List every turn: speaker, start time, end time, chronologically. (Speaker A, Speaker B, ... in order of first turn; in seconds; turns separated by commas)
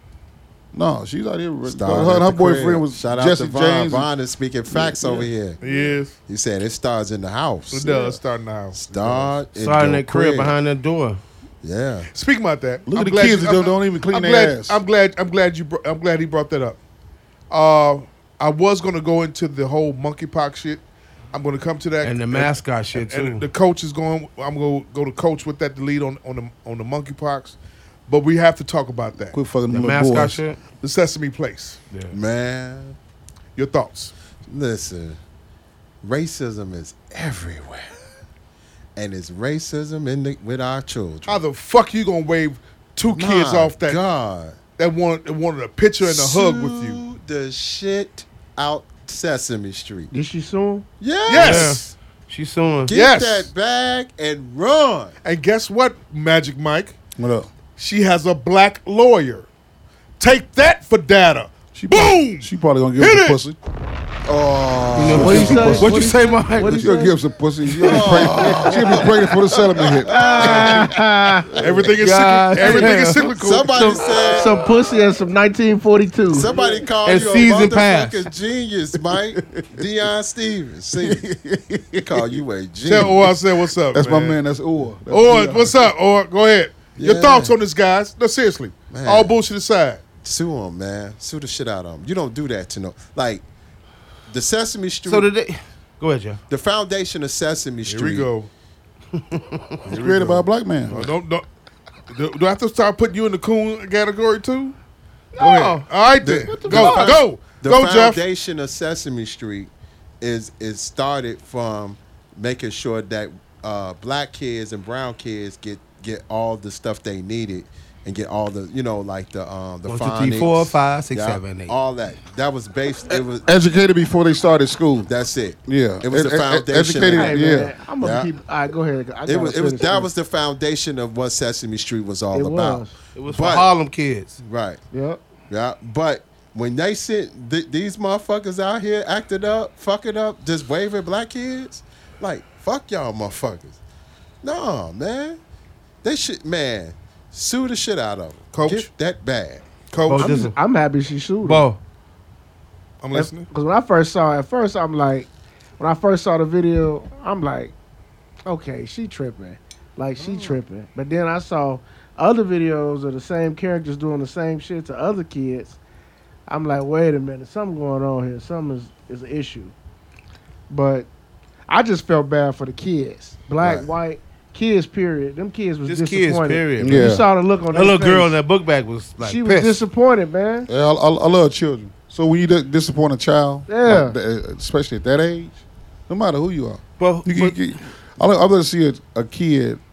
Speaker A: 0.7-4.1, Speaker B: 1.6-5.6, Speaker A: 4.7-5.8, Speaker C: 5.6-6.2, Speaker B: 6.3-7.9, Speaker C: 7.7-9.4, Speaker A: 7.9-8.2, Speaker B: 8.7-10.6, Speaker D: 9.6-11.2, Speaker B: 11.6-12.1, Speaker C: 12.1-16.8, Speaker A: 12.9-14.8, Speaker C: 17.5-20.8, Speaker C: 21.3-27.6, Speaker D: 22.0-23.5, Speaker C: 28.1-29.4, Speaker A: 29.3-30.4, Speaker D: 29.7-30.6, Speaker C: 30.7-31.8, Speaker B: 32.1-33.0, Speaker C: 33.6-34.1, Speaker B: 34.5-35.2, Speaker B: 36.0-37.9, Speaker B: 39.0-41.4, Speaker C: 41.3-44.0, Speaker B: 43.1-44.6, Speaker C: 44.8-47.0, Speaker B: 46.0-50.1, Speaker E: 50.1-50.9, Speaker B: 51.0-51.9, Speaker C: 51.3-51.9, Speaker D: 51.3-52.9, Speaker B: 52.9-55.2, Speaker C: 52.9-53.5, Speaker C: 55.2-57.0, Speaker A: 57.2-57.5, Speaker C: 57.8-59.5, Speaker C: 60.2-63.4, Speaker A: 61.8-63.6, Speaker B: 64.3-65.8, Speaker A: 64.8-66.2, Speaker D: 65.0-66.9, Speaker E: 65.1-67.1, Speaker A: 66.7-71.0, Speaker B: 67.8-70.9, Speaker D: 68.0-68.9, Speaker E: 70.1-71.5, Speaker D: 70.5-70.9, Speaker B: 71.5-71.9, Speaker A: 71.6-71.9, Speaker C: 71.6-74.0, Speaker D: 72.0-73.3, Speaker B: 72.7-74.7, Speaker E: 72.7-73.0, Speaker E: 73.8-76.5, Speaker B: 76.3-81.3, Speaker D: 77.0-78.3, Speaker A: 79.4-79.8, Speaker A: 80.9-82.4, Speaker B: 82.0-83.3, Speaker C: 82.8-84.4, Speaker A: 83.9-85.9, Speaker C: 85.1-90.0, Speaker B: 87.0-87.6, Speaker B: 88.9-89.4, Speaker B: 90.2-93.5, Speaker B: 94.3-95.3, Speaker D: 95.1-96.4, Speaker B: 96.5-98.3, Speaker C: 97.9-98.5, Speaker D: 99.2-99.6, Speaker A: 99.9-101.1, Speaker C: 99.9-101.5, Speaker C: 102.1-104.8, Speaker D: 105.3-105.9, Speaker C: 105.4-108.2, Speaker B: 106.2-123.5, Speaker D: 106.5-107.2, Speaker D: 119.9-121.8, Speaker A: 123.5-125.1, Speaker B: 125.1-127.4, Speaker A: 125.7-127.8, Speaker E: 127.0-130.1, Speaker B: 128.0-128.3, Speaker B: 129.2-133.7, Speaker E: 132.3-133.0, Speaker D: 133.2-134.4, Speaker B: 134.4-134.8, Speaker E: 134.9-135.2, Speaker B: 135.5-143.8, Speaker B: 144.4-145.4, Speaker B: 146.0-149.7, Speaker C: 148.5-148.9, Speaker C: 149.9-150.4, Speaker D: 150.1-150.6, Speaker E: 150.1-151.7, Speaker D: 151.4-151.8, Speaker C: 153.0-153.5, Speaker E: 153.1-157.7, Speaker E: 158.5-165.8, Speaker C: 160.2-160.6, Speaker E: 166.5-169.7, Speaker E: 170.7-171.1, Speaker E: 171.7-178.4, Speaker B: 173.6-173.9, Speaker D: 175.9-177.1, Speaker A: 176.8-177.2, Speaker D: 177.7-179.8, Speaker E: 179.2-180.7, Speaker A: 180.7-189.8, Speaker E: 183.7-184.2, Speaker D: 187.0-187.7